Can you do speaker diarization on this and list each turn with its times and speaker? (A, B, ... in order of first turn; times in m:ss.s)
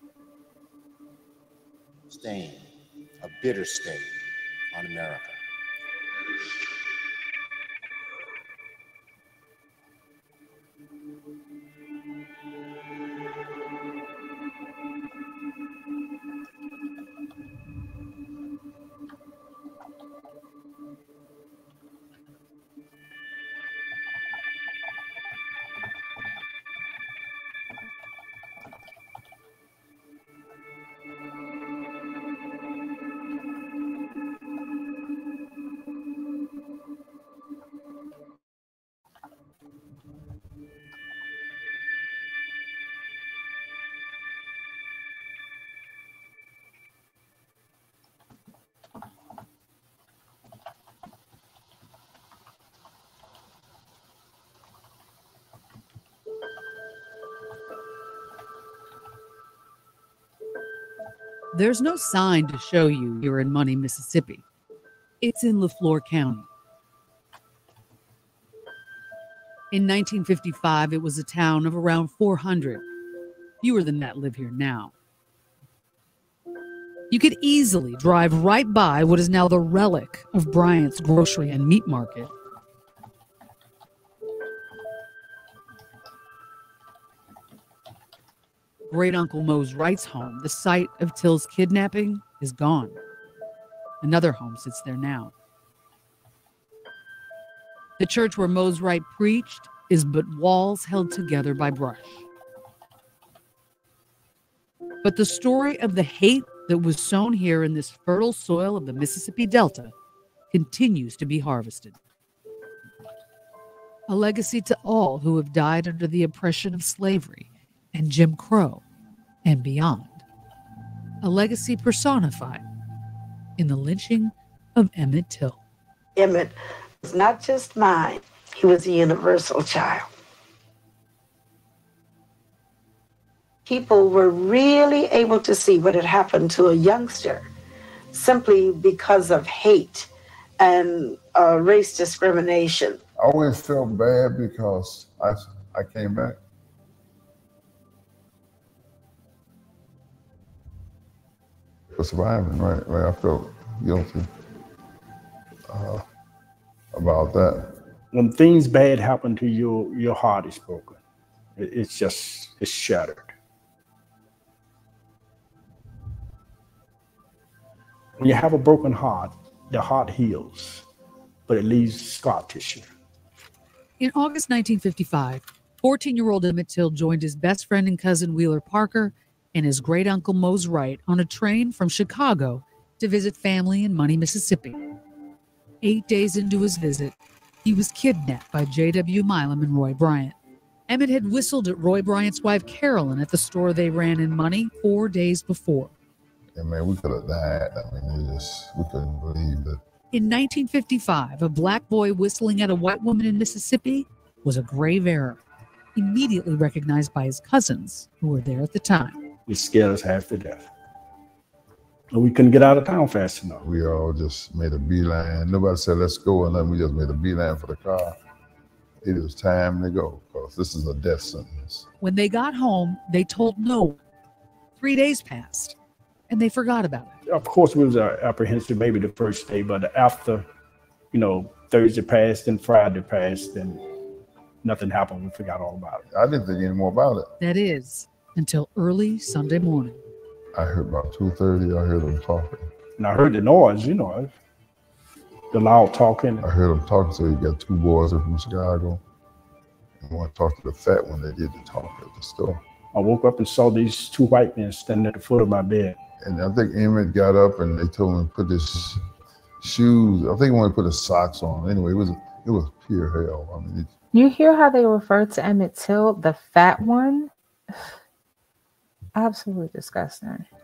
0:02.1-0:02.7 A
0:03.2-0:04.1 A
0:04.7-0:05.4 A
1:01.5-1:04.4 B
1:05.2-1:06.5 B
1:09.7-1:12.8 B
1:13.6-1:14.9 B
1:17.1-1:22.3 B
1:28.9-1:33.0 B
1:34.0-1:35.3 B
1:38.0-1:42.2 B
1:45.0-1:49.9 B
1:50.5-1:52.0 B
1:54.1-1:58.8 B
1:59.4-2:00.2 B
2:01.2-2:02.6 B
2:03.6-2:05.6 B
2:06.2-2:10.1 C
2:13.7-2:17.5 C
2:18.1-2:20.1 C
2:20.6-2:23.0 C
2:23.2-2:26.4 D
2:31.9-2:34.3 D
2:35.7-2:36.0 D
2:36.9-2:37.8 D
2:38.1-2:41.0 E
2:41.6-2:43.3 E
2:48.2-2:50.8 E
2:51.5-2:52.9 E
2:54.0-3:04.8 B
3:05.8-3:10.4 B
3:10.9-3:15.9 B
3:16.6-3:19.8 D
3:20.1-3:25.4 B
3:26.0-3:29.2 B
3:29.5-3:30.7 E
3:32.1-3:33.6 E
3:33.6-3:38.2 D
3:39.0-3:41.9 D
3:42.0-3:44.0 B
3:44.8-3:45.8 B
3:46.3-3:47.2 B
3:47.3-3:50.5 E
3:51.1-3:53.8 E
3:54.6-3:56.0 E
3:56.1-3:57.3 D
3:57.4-4:00.0 B
4:00.6-4:02.7 D
4:03.0-4:04.3 E
4:05.5-4:06.4 E
4:06.4-4:09.0 D
4:10.0-4:12.6 D
4:12.9-4:16.0 E
4:16.2-4:19.0 D
4:19.6-4:23.9 D
4:24.1-4:27.3 F
4:29.2-4:30.4 F